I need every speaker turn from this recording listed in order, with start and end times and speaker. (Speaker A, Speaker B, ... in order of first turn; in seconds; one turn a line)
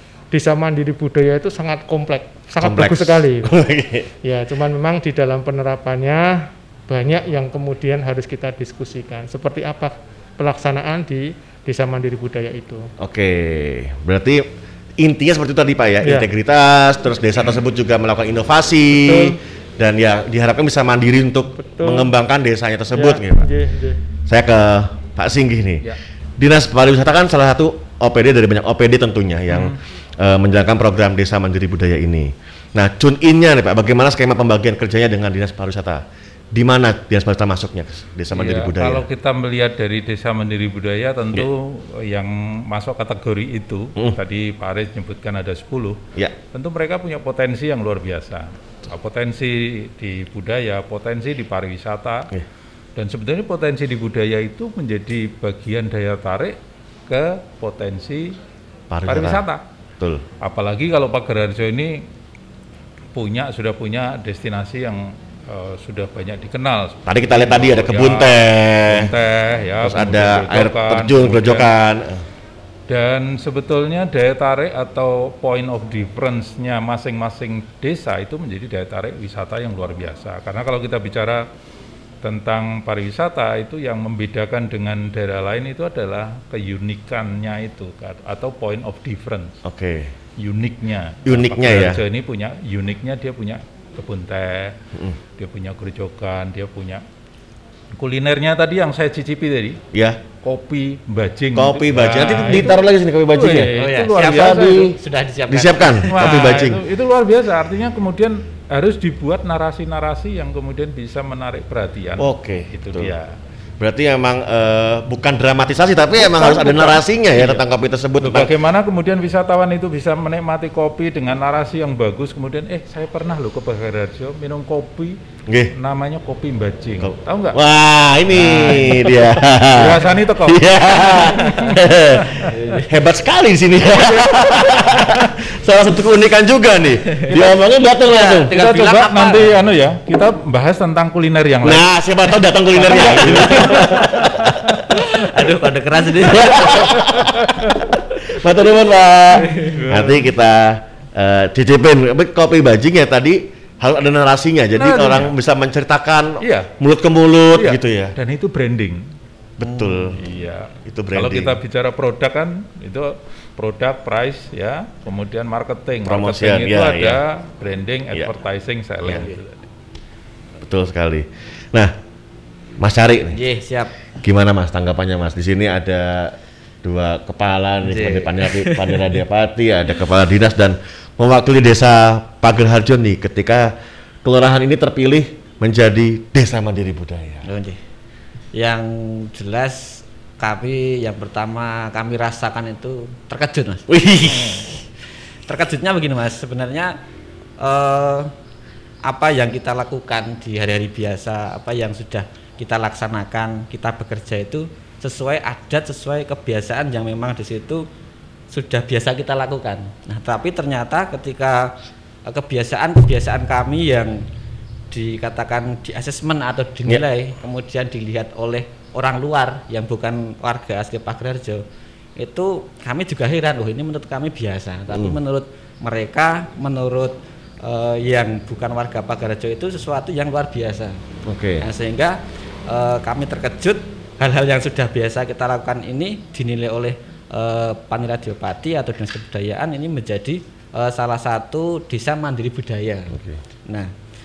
Speaker A: 0.3-3.5
Speaker B: 2.6-4.1
Speaker A: 4.2-12.9
Speaker B: 13.0-14.4
Speaker B: 15.0-23.5
Speaker A: 19.0-19.4
Speaker A: 21.6-22.1
Speaker A: 22.9-24.0
Speaker B: 24.2-36.0
Speaker C: 29.5-29.8
Speaker B: 36.5-39.0
Speaker C: 38.3-46.0
Speaker C: 46.5-52.3
Speaker C: 53.0-56.5
Speaker C: 57.1-58.4
Speaker B: 58.9-59.4
Speaker C: 59.1-59.6
Speaker C: 60.4-62.0
Speaker C: 63.1-71.7
Speaker B: 67.1-69.1
Speaker B: 69.8-72.2
Speaker C: 72.9-81.5
Speaker C: 82.2-89.6
Speaker B: 89.6-90.1
Speaker C: 90.4-94.8
Speaker B: 91.2-92.0
Speaker C: 95.4-97.0
Speaker C: 97.9-99.8
Speaker B: 99.9-100.2
Speaker C: 100.4-104.9
Speaker B: 101.5-105.0
Speaker D: 103.7-106.4
Speaker B: 105.5-106.8
Speaker C: 106.1-113.3
Speaker B: 112.2-113.2
Speaker B: 113.8-118.5
Speaker C: 116.2-117.6
Speaker C: 118.2-125.2
Speaker B: 125.5-125.7
Speaker C: 125.7-127.6
Speaker B: 127.0-138.5
Speaker C: 128.3-132.5
Speaker D: 128.3-128.9
Speaker D: 131.3-131.7
Speaker D: 132.4-132.9
Speaker C: 134.7-135.3
Speaker D: 137.2-137.5
Speaker D: 138.0-139.7
Speaker C: 138.5-141.9
Speaker B: 141.6-144.8
Speaker D: 142.8-144.3
Speaker C: 142.8-144.8
Speaker D: 144.9-147.1
Speaker B: 146.2-158.1
Speaker C: 147.0-147.8
Speaker D: 149.4-150.0
Speaker C: 149.5-150.3
Speaker C: 154.7-155.3
Speaker C: 156.4-156.7
Speaker C: 157.5-159.0
Speaker B: 159.6-160.2
Speaker D: 159.6-160.2
Speaker C: 160.2-169.6
Speaker B: 160.8-161.6
Speaker B: 166.0-167.2
Speaker D: 169.1-169.4
Speaker B: 170.6-171.9
Speaker B: 172.8-173.4
Speaker D: 173.3-173.9
Speaker B: 174.2-183.7
Speaker D: 177.8-179.0
Speaker B: 184.2-187.4
Speaker D: 187.4-187.8
Speaker D: 188.5-194.8
Speaker B: 193.9-194.7
Speaker D: 195.5-197.0
Speaker D: 197.6-198.3
Speaker D: 199.0-207.8
Speaker D: 208.5-211.7
Speaker D: 212.2-214.2
Speaker D: 214.9-221.6
Speaker D: 222.2-231.0
Speaker B: 224.9-225.2
Speaker B: 231.2-231.7
Speaker D: 231.6-243.9
Speaker B: 243.1-243.4